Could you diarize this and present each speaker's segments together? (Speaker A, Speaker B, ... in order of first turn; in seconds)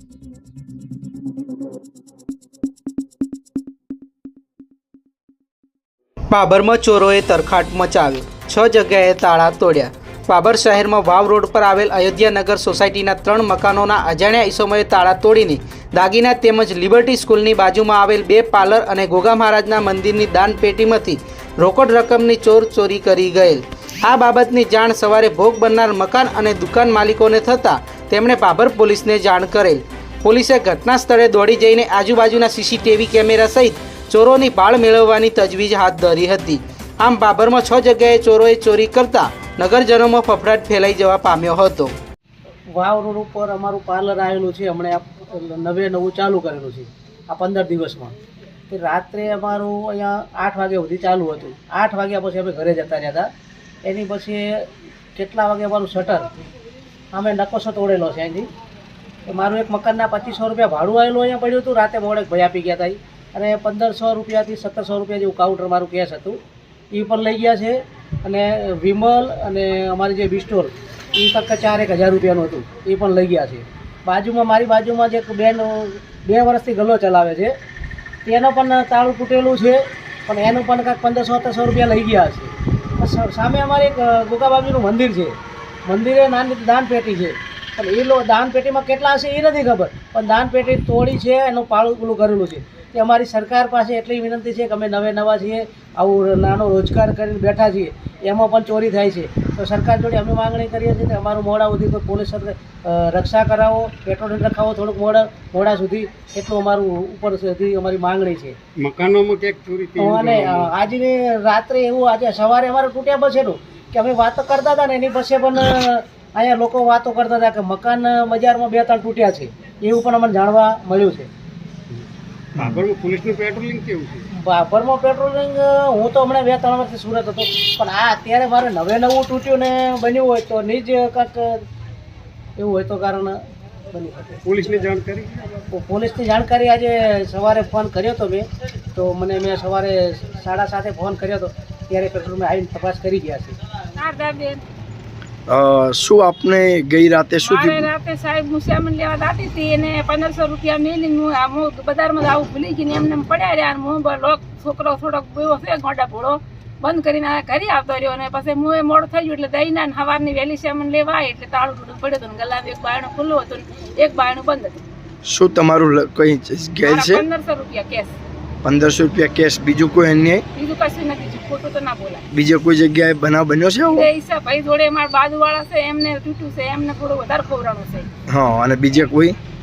Speaker A: 6.3-41.9
Speaker B: 42.7-48.1, 48.7-53.3, 53.8-54.6, 55.1-56.3, 57.1-58.5, 59.3-66.4, 66.9-77.5, 78.2-85.3, 85.9-108.5, 110.0-121.3, 124.3-131.6, 132.6-133.4, 133.9-134.4, 135.7-143.6
Speaker C: 108.8-110.7, 122.5-124.2, 134.4-135.6
Speaker D: 144.0-144.6, 147.4-164.8, 166.8-168.1, 170.5-172.2, 173.9-178.1
Speaker E: 145.5-147.9, 165.2-167.2, 168.6-170.4, 172.3-174.1, 178.3-179.3